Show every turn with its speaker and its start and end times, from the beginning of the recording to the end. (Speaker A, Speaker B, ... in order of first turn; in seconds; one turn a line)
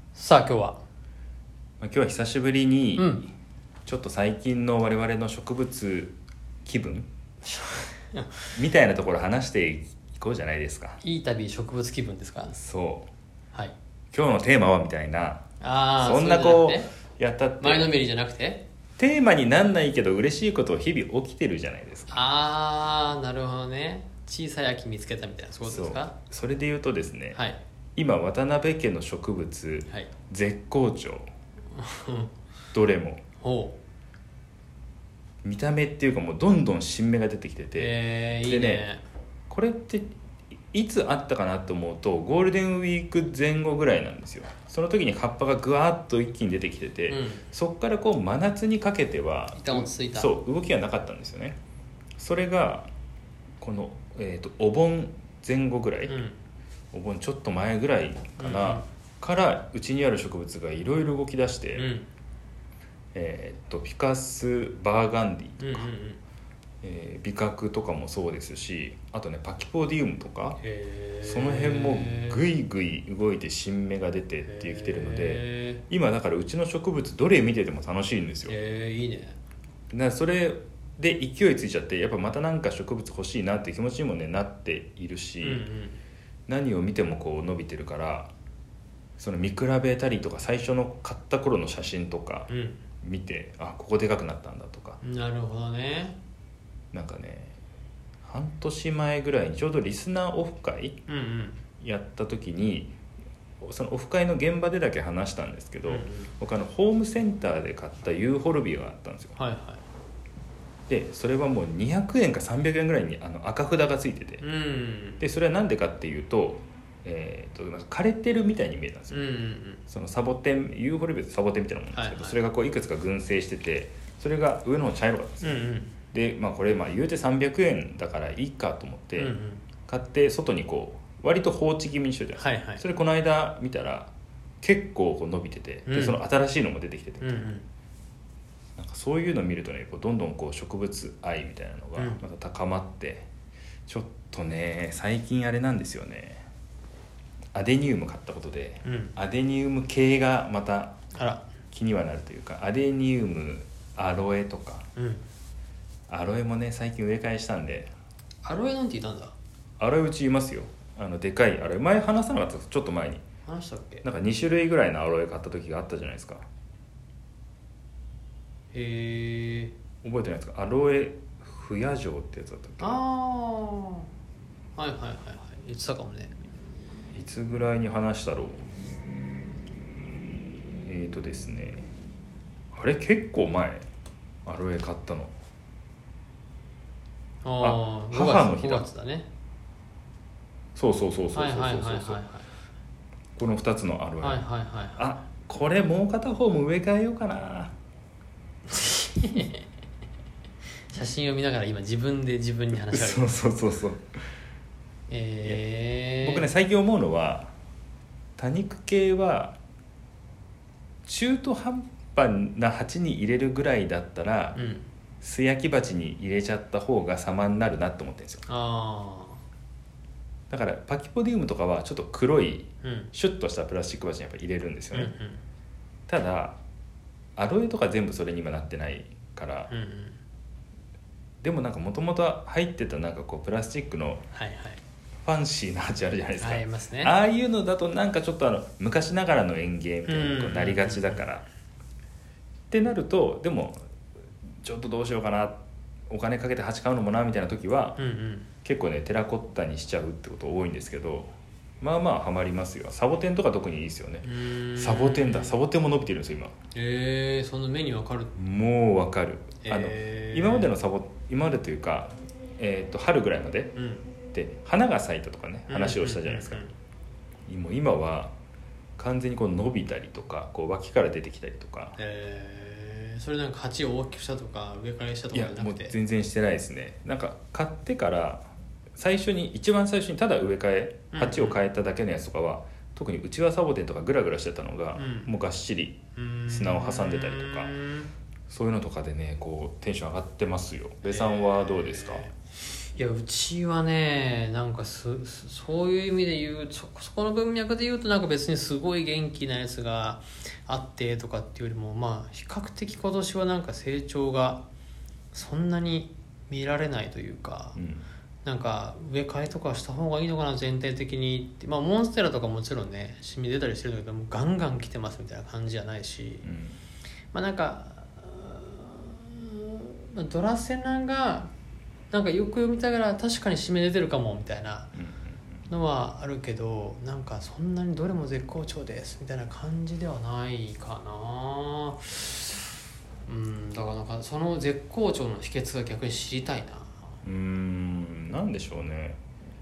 Speaker A: 0.1-0.8
Speaker B: 1.8-3.2
Speaker A: 3.0-3.2
Speaker B: 3.9-7.1
Speaker A: 7.5-8.5
Speaker B: 8.6-11.0
Speaker A: 11.0-12.5
Speaker B: 12.5-13.1
Speaker B: 14.1-15.4
Speaker A: 15.6-16.9
Speaker B: 16.0-17.9
Speaker A: 17.6-18.6
Speaker B: 19.0-22.2
Speaker A: 22.1-26.1
Speaker B: 25.6-27.4
Speaker A: 27.3-27.6
Speaker B: 27.9-31.3
Speaker A: 31.7-32.3
Speaker B: 32.7-33.2
Speaker A: 33.4-33.8
Speaker B: 35.4-37.9
Speaker A: 37.8-39.0
Speaker B: 38.5-38.9
Speaker B: 39.5-40.1
Speaker B: 40.7-51.6
Speaker A: 47.1-47.5
Speaker A: 49.5-50.3
Speaker B: 52.2-52.9
Speaker B: 53.6-56.2
Speaker A: 56.1-56.4
Speaker B: 56.9-61.9
Speaker A: 58.4-58.9
Speaker A: 61.8-62.1
Speaker B: 63.1-65.9
Speaker A: 65.6-66.2
Speaker B: 66.8-70.6
Speaker A: 70.6-72.5
Speaker B: 71.2-78.5
Speaker A: 74.5-75.8
Speaker A: 78.5-79.4
Speaker B: 79.9-85.6
Speaker A: 85.4-86.0
Speaker B: 86.5-88.3
Speaker B: 89.2-92.5
Speaker A: 92.5-92.8
Speaker B: 93.0-95.0
Speaker A: 95.0-96.2
Speaker B: 96.9-97.6
Speaker B: 98.2-101.0
Speaker A: 101.1-101.6
Speaker B: 101.8-102.9
Speaker B: 103.6-109.3
Speaker A: 105.9-106.3
Speaker A: 109.3-109.8
Speaker B: 110.9-114.4
Speaker A: 114.4-115.2
Speaker B: 115.2-119.2
Speaker A: 119.1-119.8
Speaker B: 119.9-129.3
Speaker A: 121.9-122.4
Speaker A: 125.4-125.9
Speaker A: 129.2-129.7
Speaker B: 129.9-137.5
Speaker A: 132.4-132.8
Speaker A: 135.9-136.2
Speaker A: 137.2-137.6
Speaker B: 138.8-143.3
Speaker A: 141.9-142.2
Speaker B: 143.9-146.4
Speaker B: 147.5-150.9
Speaker A: 148.8-149.1
Speaker A: 151.1-151.5
Speaker B: 151.7-154.9
Speaker A: 154.9-155.2
Speaker B: 156.1-157.9
Speaker A: 158.4-159.3
Speaker B: 159.8-163.2
Speaker A: 163.4-164.0
Speaker B: 164.0-166.4
Speaker A: 168.7-169.7
Speaker B: 170.0-173.0
Speaker A: 172.8-174.1
Speaker A: 174.8-176.3
Speaker B: 177.1-178.6
Speaker B: 180.8-181.8
Speaker B: 182.7-183.8
Speaker B: 184.4-185.3
Speaker A: 187.4-189.3
Speaker B: 187.6-188.8
Speaker B: 190.8-192.2
Speaker A: 191.3-192.5
Speaker B: 193.3-194.4
Speaker A: 194.2-195.1
Speaker B: 195.0-197.7
Speaker A: 198.7-199.6
Speaker A: 200.9-203.4
Speaker B: 202.8-204.0
Speaker A: 205.1-206.5
Speaker B: 206.2-207.5
Speaker B: 208.4-209.6
Speaker B: 211.0-214.6
Speaker A: 214.5-214.8
Speaker B: 215.2-218.4
Speaker A: 218.5-219.4
Speaker B: 220.5-225.1
Speaker A: 222.8-223.1
Speaker A: 224.9-225.4
Speaker B: 226.1-226.6
Speaker B: 227.3-229.7
Speaker A: 229.7-230.2
Speaker B: 231.4-234.2
Speaker A: 234.3-234.8
Speaker B: 235.2-241.4
Speaker A: 236.4-237.1
Speaker A: 240.1-241.2
Speaker B: 242.7-243.8
Speaker B: 244.6-248.0
Speaker A: 248.0-248.5
Speaker B: 248.6-256.5
Speaker A: 254.2-255.6
Speaker A: 256.7-258.3
Speaker B: 258.3-263.7
Speaker A: 259.6-260.7
Speaker A: 263.8-264.1
Speaker B: 264.3-266.6
Speaker A: 265.7-266.7
Speaker B: 267.5-268.3
Speaker B: 269.0-272.0
Speaker A: 272.0-275.9
Speaker B: 275.3-287.8
Speaker A: 281.1-281.6
Speaker A: 284.9-285.3
Speaker A: 286.1-288.1
Speaker B: 288.5-292.3
Speaker A: 291.0-292.3
Speaker A: 292.8-304.6
Speaker A: 305.3-307.8
Speaker B: 307.7-308.0
Speaker A: 308.4-316.5
Speaker B: 316.4-316.8
Speaker A: 317.3-321.5
Speaker A: 322.1-324.9
Speaker B: 324.9-325.5
Speaker A: 325.7-332.7
Speaker A: 333.2-337.1
Speaker B: 337.2-339.2